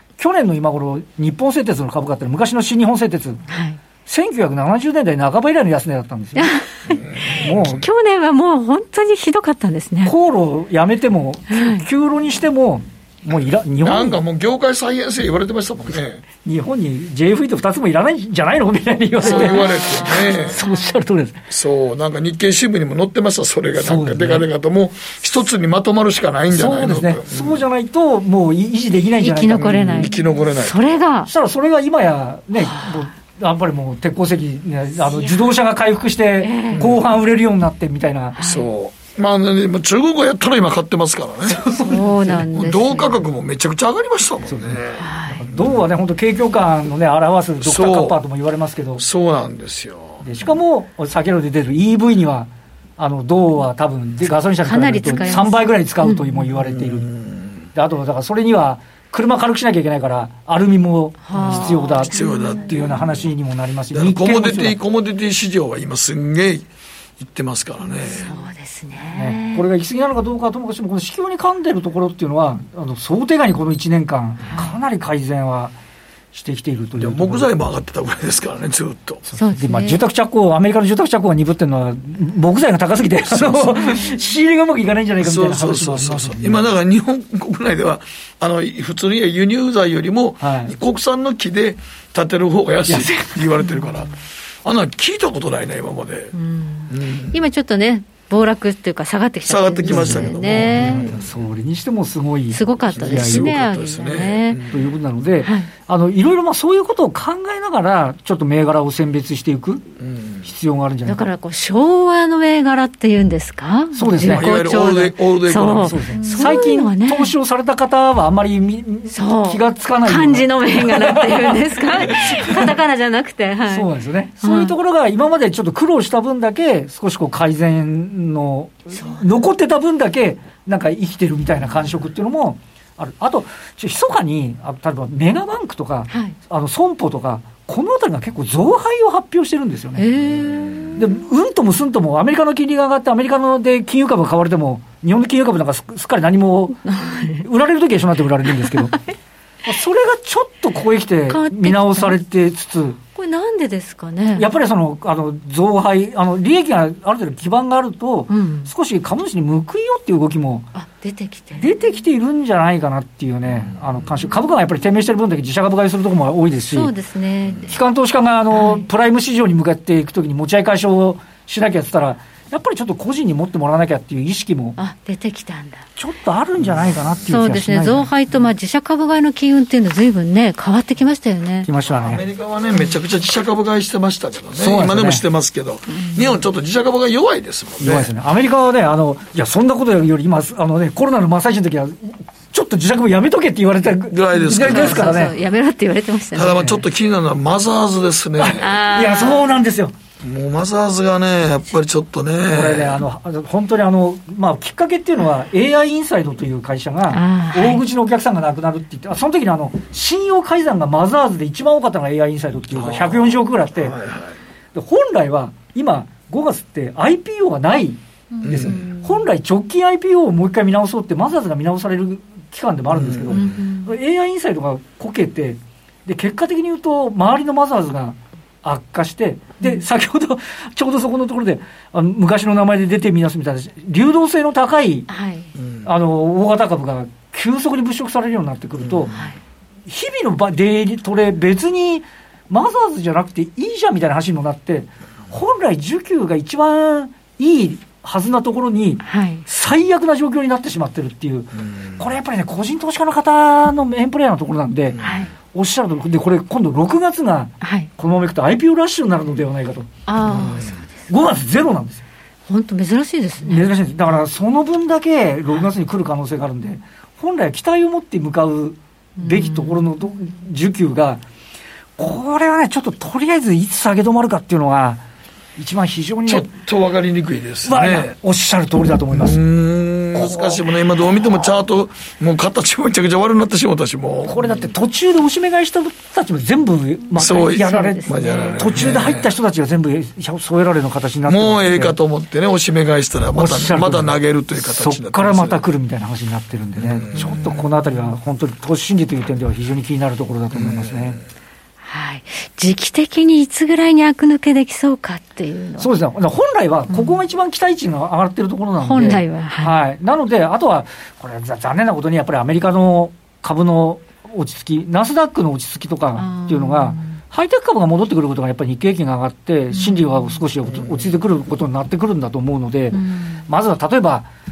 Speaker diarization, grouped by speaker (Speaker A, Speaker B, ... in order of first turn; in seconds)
Speaker A: 0.2-3.4, 4.0-6.5, 7.3-7.8, 10.0-14.2, 15.9-19.6, 20.4-21.4, 23.8-24.4, 26.5-30.1, 31.3-38.4, 41.5-42.4, 44.5-49.0, 50.2-57.1, 57.7-64.8, 69.1-75.7, 76.3-77.5, 79.3-86.7, 90.4-90.7, 92.9-93.5, 99.8-103.5, 104.7-109.8, 110.4-111.2, 113.9-114.5, 115.8-122.7, 123.7-140.1, 140.9-146.8, 147.4-149.0, 149.6-153.0, 154.3-160.7, 161.6-166.9, 167.6-174.8, 175.9-178.1, 181.6-182.2, 184.6-185.2, 187.8-195.3, 196.5-196.8, 198.4-199.9, 202.5-213.9, 214.7-235.1, 235.8-239.1, 239.9-255.0, 255.5-259.9, 261.1-262.0, 263.4-271.2, 272.0-275.0, 275.6-276.5, 277.6-279.4, 280.1-280.6, 284.2-291.9, 293.3-301.2, 305.8-324.3
Speaker B: 3.5-3.8, 6.4-6.7, 7.7-10.1, 11.5-11.8, 19.2-20.9, 29.2-31.3, 32.6-33.0, 35.1-35.4, 36.4-36.8, 38.4-38.7, 41.8-43.2, 45.0-45.4, 54.6-56.4, 61.3-62.6, 68.1-69.6, 74.4-74.7, 79.4-80.0, 96.3-101.1, 102.5-104.6, 105.4-105.7, 111.1-117.3, 119.1-123.9, 124.4-124.7, 129.0-129.2, 136.1-136.3, 140.0-141.0, 146.8-147.4, 151.3-152.1, 153.2-154.5, 158.3-158.7, 160.7-161.7, 166.7-167.7, 168.5-168.8, 174.8-175.8, 177.2-181.7, 185.9-186.4, 194.3-196.6, 198.6-199.4, 207.1-207.8, 223.3-223.9, 235.1-235.5, 249.1-249.4, 255.0-255.3, 257.6-257.9, 260.1-260.9, 262.5-263.7, 269.2-269.8, 287.1-288.8, 297.2-297.5, 301.8-305.9, 306.9-307.2, 308.8-309.8, 316.1-317.2, 319.7-320.4, 322.9-323.4
Speaker C: 6.9-7.8, 13.8-16.2, 19.2-20.6, 21.5-27.6, 29.5-30.8, 36.7-37.0, 38.4-41.7, 42.5-45.7, 47.6-48.2, 49.0-50.2, 56.6-57.6, 61.4-63.3, 63.9-66.7, 67.2-68.3, 77.0-79.2, 83.3-84.0, 85.2-94.1, 94.6-96.3, 96.9-97.4, 99.5-101.3, 102.9-104.8, 110.0-110.4, 114.2-116.0, 140.6-140.9, 181.9-188.1, 194.1-195.2, 196.3-198.7, 200.2-203.0, 212.7-214.3, 218.4-218.9, 222.9-223.6, 235.6-235.8, 255.0-255.2, 260.3-260.7, 276.3-278.1, 279.1-284.7, 287.2-289.3, 291.2-295.6, 296.8-297.6, 300.5-301.2, 320.7-321.0